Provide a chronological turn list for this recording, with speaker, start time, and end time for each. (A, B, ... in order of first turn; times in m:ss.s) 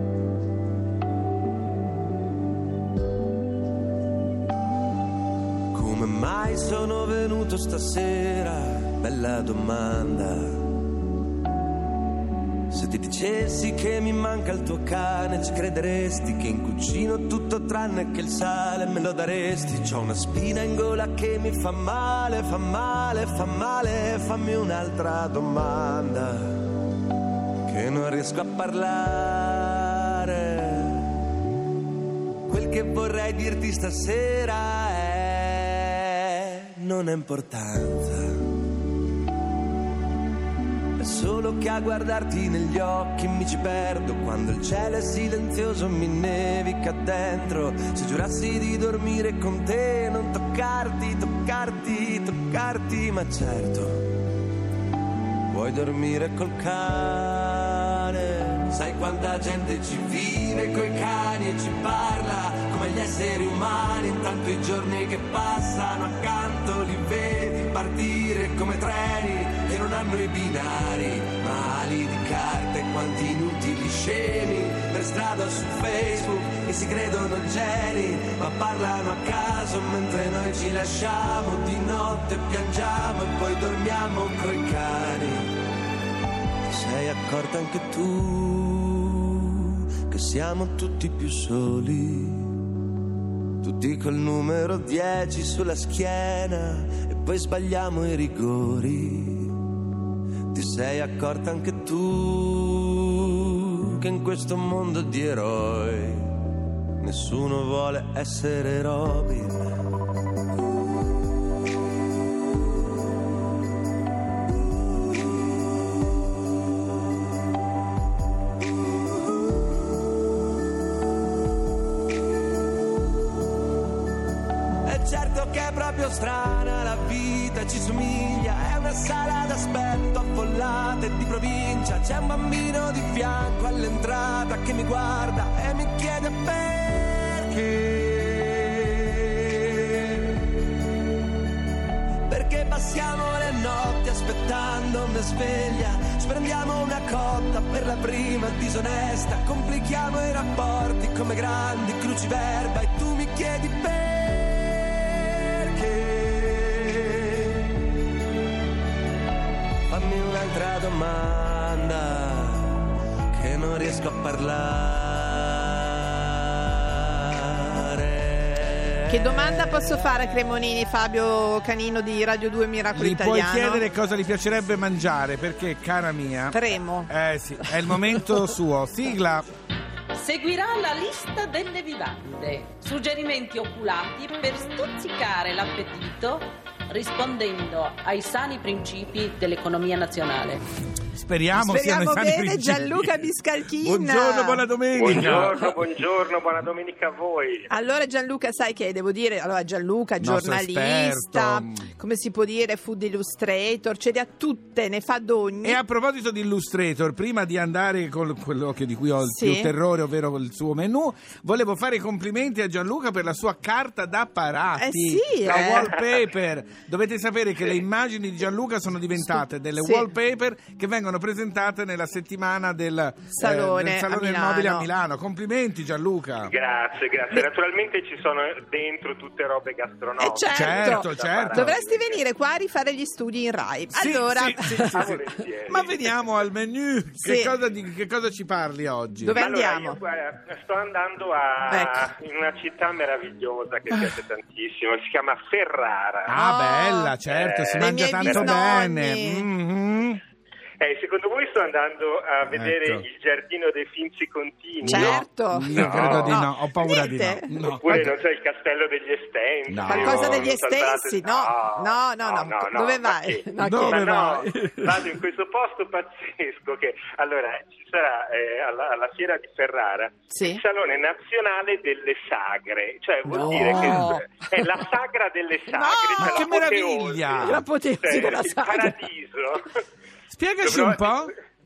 0:05.7-0:10.8 A
0:12.7-0:26.8 A
0:27.7-0:31.2 A
0:32.5-0:38.5 A
0:41.0-0:54.1 A
0:55.5-1:25.6 A
1:26.7-1:32.7 A
1:33.6-1:39.8 A
1:40.5-1:49.9 A
2:04.8-2:20.5 A
2:22.3-2:37.7 A
2:39.9-2:49.9 A
2:49.1-2:53.9 B
2:52.9-2:59.5 C
2:56.5-2:57.1 B
3:00.1-3:10.6 D
3:11.1-3:15.8 C
3:11.6-3:14.6 B
3:14.9-3:17.7 E
3:17.7-3:25.8 B
3:20.2-3:21.9 C
3:25.6-3:46.5 C
3:29.2-3:29.7 B
3:34.8-3:36.0 B
3:39.2-3:40.1 B
3:43.3-3:44.9 B
3:46.4-3:52.2 E
3:50.2-3:55.2 B
3:50.5-3:51.8 C
3:53.9-3:59.4 C
3:54.7-3:56.2 E
3:57.2-3:57.6 B
3:59.2-4:00.0 B
3:59.3-4:06.3 E
4:01.7-4:02.1 B
4:06.3-4:10.2 C
4:06.3-4:07.2 B
4:07.3-4:08.8 E
4:07.8-4:09.5 B
4:10.8-4:16.4 E
4:12.5-4:13.0 C
4:14.8-4:18.1 C
4:14.9-4:18.0 B
4:17.6-4:39.6 E
4:19.7-4:20.5 C
4:19.8-4:24.2 B
4:23.6-4:25.1 C
4:30.3-4:30.6 B
4:33.3-4:34.4 B
4:33.5-4:34.2 C
4:35.8-4:36.6 B
4:36.2-4:37.6 C
4:37.4-4:39.0 B
4:40.3-4:41.3 C
4:40.6-4:41.3 E